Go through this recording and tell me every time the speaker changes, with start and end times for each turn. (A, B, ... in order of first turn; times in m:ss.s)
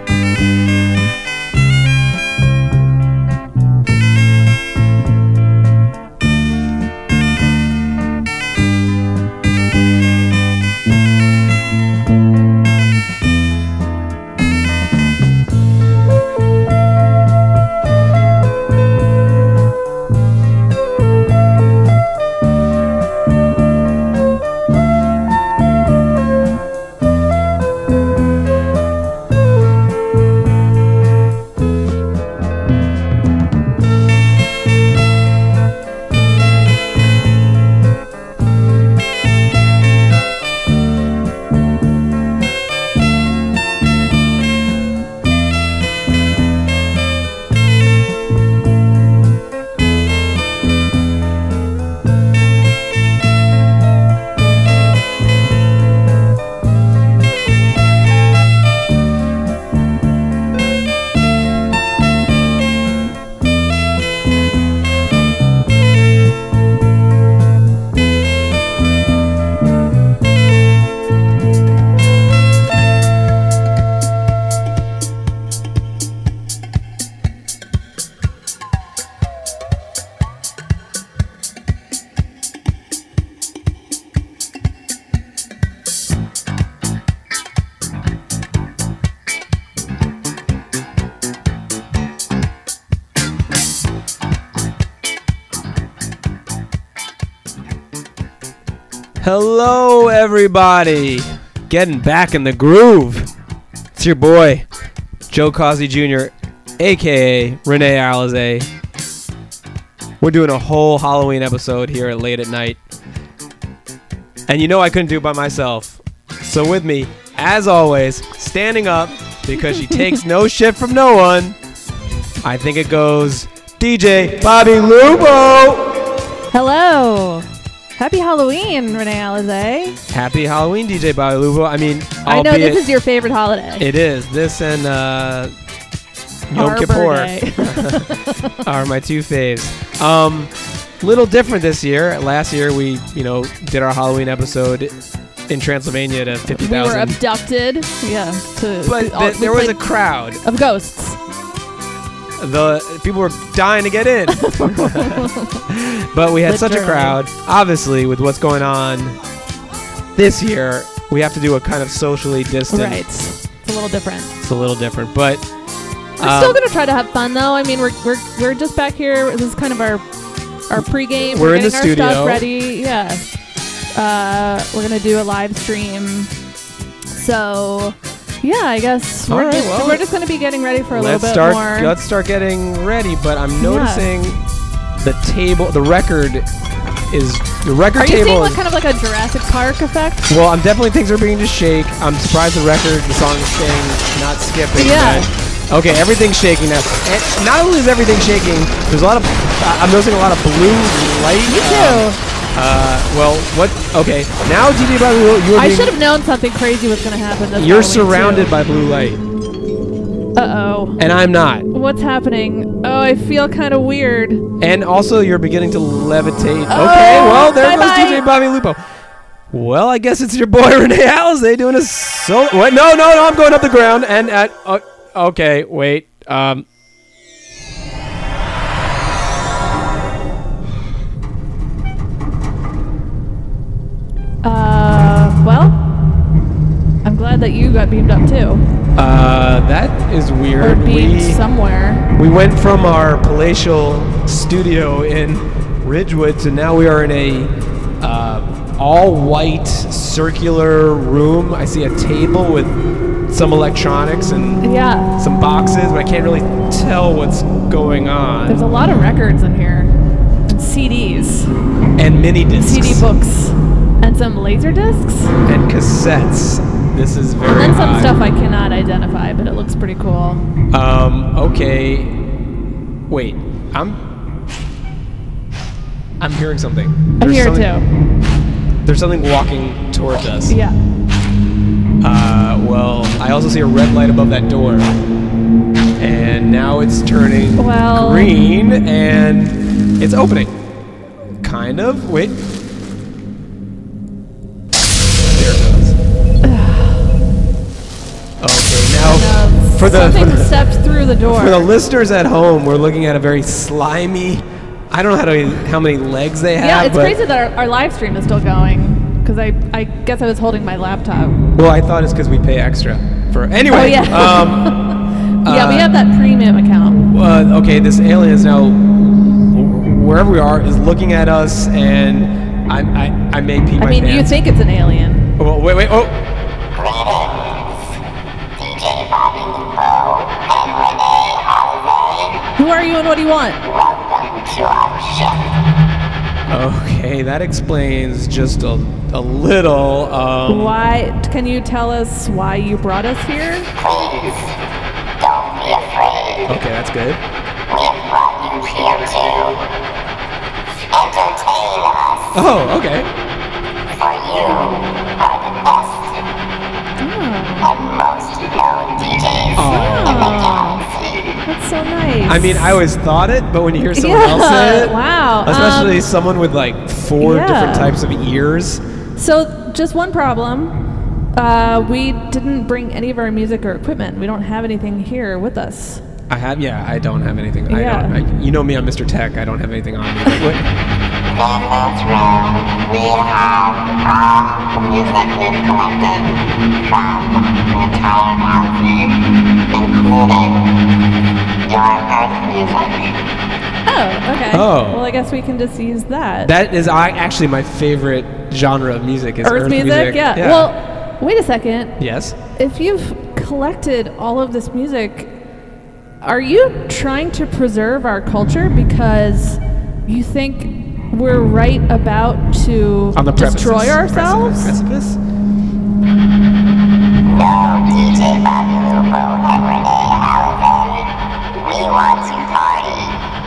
1:39.2-1:43.3 A
1:44.0-1:44.7 A
1:45.3-1:48.7 A
1:50.2-1:52.8 A
1:54.5-2:01.6 A
2:02.4-2:06.0 A
2:06.5-2:10.0 B
2:10.1-2:12.8 A
2:12.2-2:13.9 B
2:13.8-2:15.5 A
2:16.5-2:27.2 A
2:16.5-2:18.4 B
2:26.5-2:29.8 B
2:28.8-2:30.4 A
2:30.4-2:31.2 B
2:32.4-2:39.2 A
2:34.4-2:35.6 B
2:36.5-2:37.2 B
2:40.2-2:43.0 A
2:42.7-2:44.4 B
2:44.4-2:45.5 A
2:46.2-2:46.6 A
2:46.2-2:50.1 B
2:50.7-2:53.4 B
2:51.3-2:52.4 A
2:53.9-2:56.3 B
2:57.1-3:01.9 B
2:59.3-3:00.0 A
3:00.9-3:04.4 A
3:03.6-3:04.1 B
3:05.0-3:06.5 A
3:07.1-3:08.6 A
3:08.0-3:10.3 B
3:10.3-3:25.9 A
3:14.8-3:15.3 B
3:21.5-3:22.2 B
3:25.6-3:28.5 B
3:27.6-3:29.2 A
3:30.4-3:31.0 B
3:31.0-3:31.7 A
3:31.7-3:34.4 B
3:34.6-3:38.8 A
3:36.7-3:38.2 B
3:39.5-3:46.7 A
3:54.4-3:55.9 B
3:57.0-3:58.6 B
3:59.0-4:01.4 A
4:00.6-4:02.1 B
4:02.1-4:14.7 A
4:14.6-4:15.1 B
4:15.2-4:18.7 A
4:18.5-4:19.9 B
4:20.5-4:21.5 B
4:22.0-4:23.0 A
4:22.6-4:25.4 B
4:25.4-4:28.2 A
4:27.5-4:30.5 B
4:30.7-4:32.2 A
4:33.1-4:34.0 A
4:36.2-4:37.7 A
4:37.2-4:37.9 B
4:38.8-4:40.6 A
4:40.5-4:40.8 B
4:42.0-4:44.9 A
4:46.0-4:50.6 A
4:47.6-4:48.4 B
4:51.4-4:52.4 A
4:55.3-4:56.0 A
4:56.4-4:57.1 B
4:58.4-5:00.6 A
4:59.0-5:01.7 B
5:01.3-5:07.2 A
5:06.6-5:11.4 B
5:11.5-5:16.0 A
5:13.7-5:17.0 B
5:17.0-5:24.4 A
5:23.8-5:25.3 B
5:25.4-5:26.2 A
5:26.8-5:27.6 C
5:28.6-5:32.4 C
5:32.6-5:33.6 B
5:33.7-5:35.4 C
5:36.5-5:40.8 A
5:40.5-5:43.7 B
5:43.8-5:44.5 C
5:45.2-5:46.5 C
5:46.5-5:47.2 A
5:47.7-5:49.6 C
5:50.9-5:52.3 C
5:52.3-5:53.1 A
5:54.0-5:56.0 C
5:57.0-5:57.7 B
5:57.7-5:59.6 C
5:59.6-6:00.3 A
5:59.6-6:00.9 B
6:00.3-6:01.3 C
6:01.4-6:02.8 B
6:02.3-6:08.8 A
6:03.9-6:06.1 B
6:07.2-6:07.9 B
6:09.2-6:10.8 B
6:11.3-6:16.0 B
6:16.3-6:20.7 A
6:17.7-6:18.2 B
6:21.3-6:29.2 C
6:29.7-6:30.6 C
6:31.7-6:33.2 C
6:33.9-6:36.5 B
6:34.5-6:35.0 A
6:36.4-6:40.7 A
6:39.4-6:42.0 B
6:42.0-6:42.4 A
6:42.6-6:45.3 B
6:46.2-6:54.7 B
6:53.1-6:55.2 A
6:57.3-7:01.0 C
7:01.6-7:03.1 C